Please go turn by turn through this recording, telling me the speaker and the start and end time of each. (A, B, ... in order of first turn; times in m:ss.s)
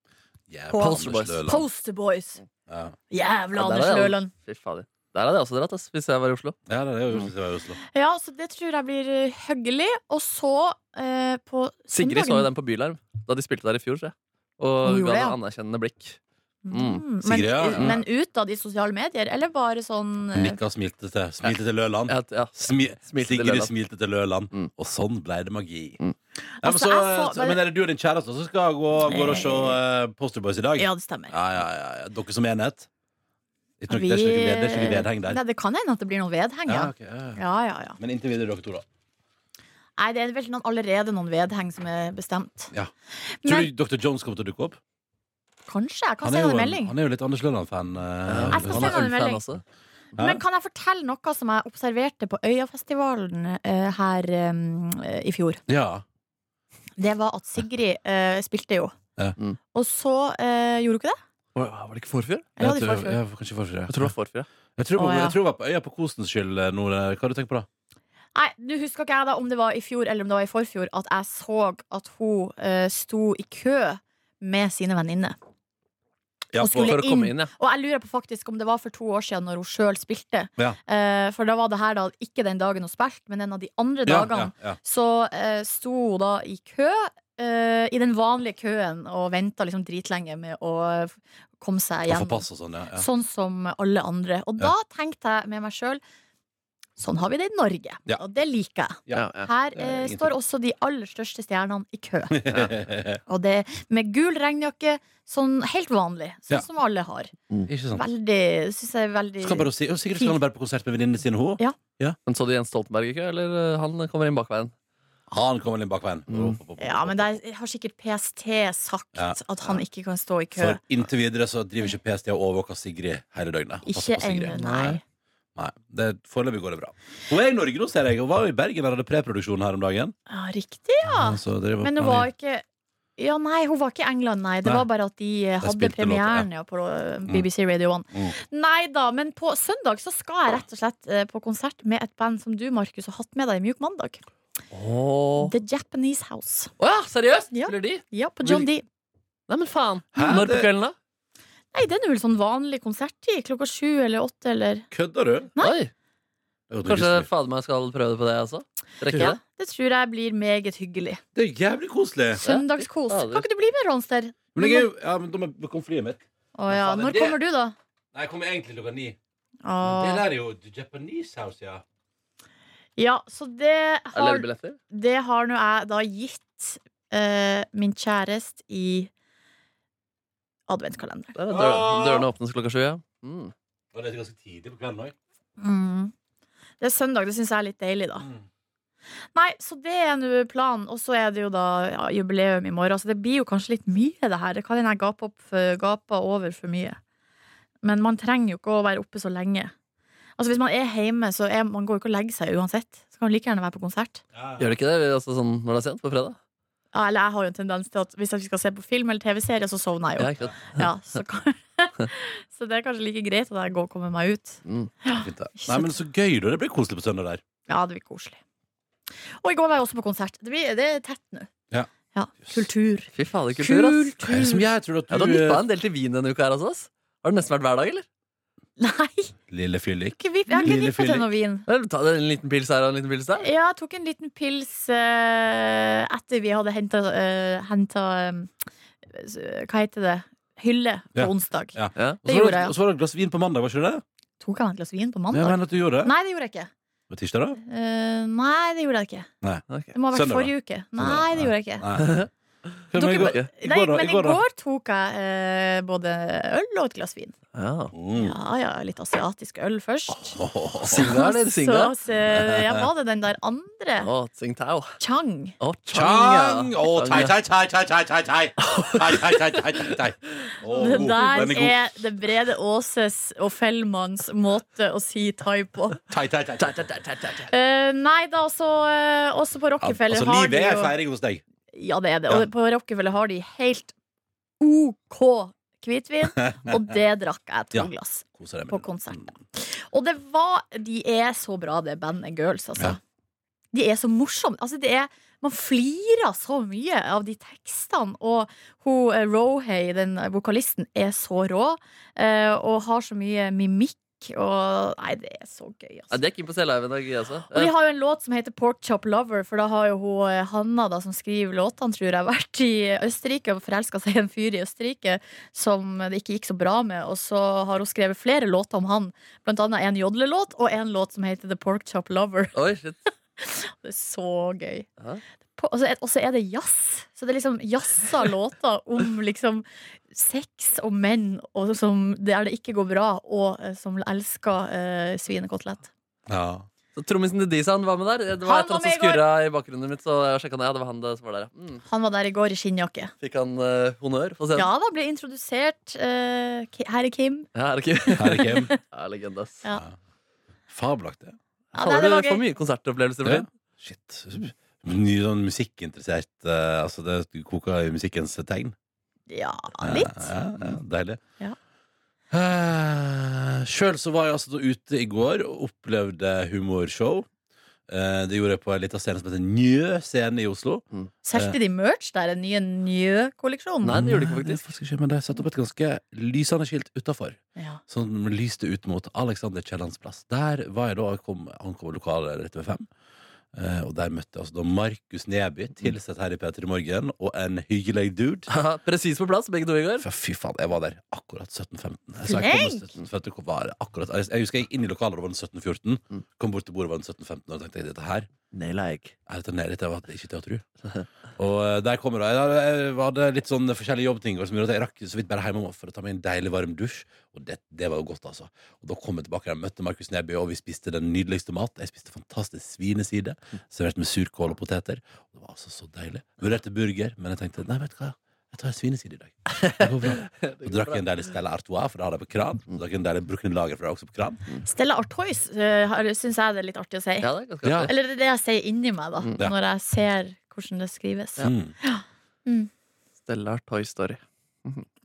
0:00.5-0:01.6 A
0:00.7-0:02.4 B
0:00.8-0:01.4 C
0:02.7-0:02.9 A
0:03.1-0:04.3 B
0:03.5-0:06.6 C
0:06.7-0:07.8 A
0:07.9-0:12.5 B
0:11.9-0:16.2 C
0:14.8-0:15.4 B
0:16.6-0:20.6 B
0:16.7-0:17.0 C
0:17.2-0:18.0 A
0:17.7-0:18.0 C
0:20.3-0:26.0 A
0:22.1-0:23.7 C
0:26.6-0:27.6 B
0:26.6-0:32.9 A
0:29.0-0:29.8 B
0:30.8-0:31.3 B
0:33.8-0:35.4 A
0:33.9-0:38.0 B
0:36.7-0:37.4 A
0:38.0-0:38.8 A
0:40.0-0:42.7 B
0:43.4-0:43.7 B
0:43.4-0:44.8 A
0:45.7-0:46.9 B
0:46.2-0:49.0 A
0:48.3-0:49.6 C
0:48.5-0:49.4 B
0:50.2-0:50.4 A
0:50.2-0:55.6 B
0:55.7-0:56.0 A
0:57.0-0:59.0 B
0:59.7-1:01.2 B
1:01.5-1:02.5 C
1:02.6-1:03.2 B
1:02.6-1:04.1 A
1:03.9-1:04.5 C
1:04.8-1:07.7 A
1:05.0-1:05.4 B
1:08.3-1:15.4 B
1:16.5-1:17.0 A
1:16.6-1:36.0 B
1:16.8-1:17.5 C
1:24.0-1:24.8 A
1:32.1-1:33.0 A
1:37.0-1:42.7 B
1:39.1-1:40.3 A
1:39.1-1:39.5 C
1:42.3-1:43.2 A
1:43.3-1:47.3 B
1:47.7-1:48.1 A
1:47.9-1:50.4 B
1:49.4-1:52.2 A
1:52.3-1:54.7 C
1:55.3-1:57.4 A
1:56.3-1:56.6 C
1:56.8-2:00.8 B
1:59.1-1:59.7 A
2:00.5-2:04.6 A
2:03.8-2:05.0 B
2:04.5-2:05.0 C
2:05.6-2:10.1 A
2:10.3-2:12.6 B
2:11.0-2:12.3 A
2:13.2-2:24.2 B
2:15.6-2:16.5 A
2:24.7-2:25.5 C
2:25.4-2:26.7 B
2:26.8-2:28.6 C
2:27.5-2:28.8 B
2:29.5-2:30.9 C
2:30.1-2:30.7 A
2:31.7-2:34.9 B
2:34.9-2:35.5 A
2:35.6-2:35.9 C
2:36.7-2:37.3 A
2:36.8-2:39.4 C
2:39.1-2:39.3 A
2:39.1-2:41.2 B
2:41.3-2:42.4 A
2:42.4-2:43.4 C
2:42.4-2:44.9 B
2:44.5-2:47.4 A
2:46.5-2:47.7 B
2:48.1-2:49.2 A
2:49.6-2:50.2 B
2:49.8-2:51.8 A
2:53.0-2:59.1 B
2:54.1-2:54.8 C
3:00.7-3:01.4 B
3:01.3-3:03.5 C
3:01.5-3:02.3 A
3:03.9-3:05.1 A
3:05.6-3:06.1 B
3:06.8-3:08.3 B
3:09.3-3:17.0 B
3:17.8-3:19.7 B
3:20.4-3:24.2 B
3:24.3-3:24.7 A
3:24.6-3:26.4 C
3:26.9-3:35.9 B
3:30.2-3:30.9 C
3:34.6-3:34.9 C
3:35.2-3:37.4 A
3:37.7-3:38.4 B
3:39.4-3:41.5 B
3:42.1-3:44.6 B
3:43.1-3:44.2 C
3:44.2-3:45.6 A
3:45.1-3:48.0 C
3:48.8-3:49.3 B
3:49.5-3:51.3 A
3:50.2-3:51.6 B
3:51.7-3:53.5 C
3:53.4-3:58.5 B
3:59.1-4:02.7 B
4:01.1-4:04.0 A
4:04.4-4:06.7 B
4:05.3-4:06.1 A
4:07.1-4:07.6 A
4:07.6-4:09.3 B
4:09.4-4:12.2 A
4:09.9-4:11.8 B
4:12.0-4:12.3 C
4:12.9-4:14.4 A
4:12.9-4:17.4 B
4:13.1-4:13.5 C
4:17.5-4:17.9 C
4:17.9-4:18.4 A
4:18.1-4:24.1 B
4:20.4-4:21.1 A
4:20.8-4:21.9 C
4:22.2-4:22.9 A
4:24.0-4:25.0 C
4:25.0-4:25.5 B
4:25.6-4:27.3 C
4:25.9-4:31.8 A
4:28.6-4:31.6 C
4:30.7-4:36.0 B
4:36.1-4:36.9 A
4:36.6-4:37.5 C
4:37.5-4:40.9 B
4:39.8-4:41.4 A
4:41.7-4:43.9 B
4:44.6-4:53.0 B
4:46.4-4:46.8 A
4:47.7-4:49.3 A
4:53.7-5:06.2 B
5:06.1-5:07.7 C
5:07.5-5:22.6 B
5:22.5-5:23.0 C
5:23.4-5:24.9 B
5:25.6-5:35.9 B
5:36.3-5:36.7 A
5:37.0-5:41.8 C
5:38.4-5:39.2 B
5:41.9-5:43.1 B
5:43.2-5:44.7 C
5:44.5-5:47.5 B
5:47.5-5:49.6 C
5:48.2-5:48.7 A
5:48.2-5:48.8 B
5:50.7-5:51.4 A
5:51.7-5:52.4 B
5:51.7-5:53.5 C
5:53.2-5:58.7 A
5:59.3-6:00.4 B
5:59.8-6:01.2 A
6:02.3-6:07.3 A
6:07.9-6:11.6 A
6:11.2-6:14.0 B
6:13.8-6:14.6 C
6:13.9-6:22.9 A
6:17.6-6:17.8 B
6:23.5-6:28.5 A
6:28.5-6:30.0 C
6:30.0-6:38.3 A
6:32.2-6:32.9 B
6:38.5-6:39.1 C
6:39.3-6:40.6 A
6:41.4-7:04.4 A
6:59.5-7:01.0 C
7:04.6-7:07.3 B
7:07.2-7:07.9 C
7:07.6-7:07.9 A
7:07.8-7:12.7 B
7:11.4-7:11.7 A
7:13.2-7:14.8 C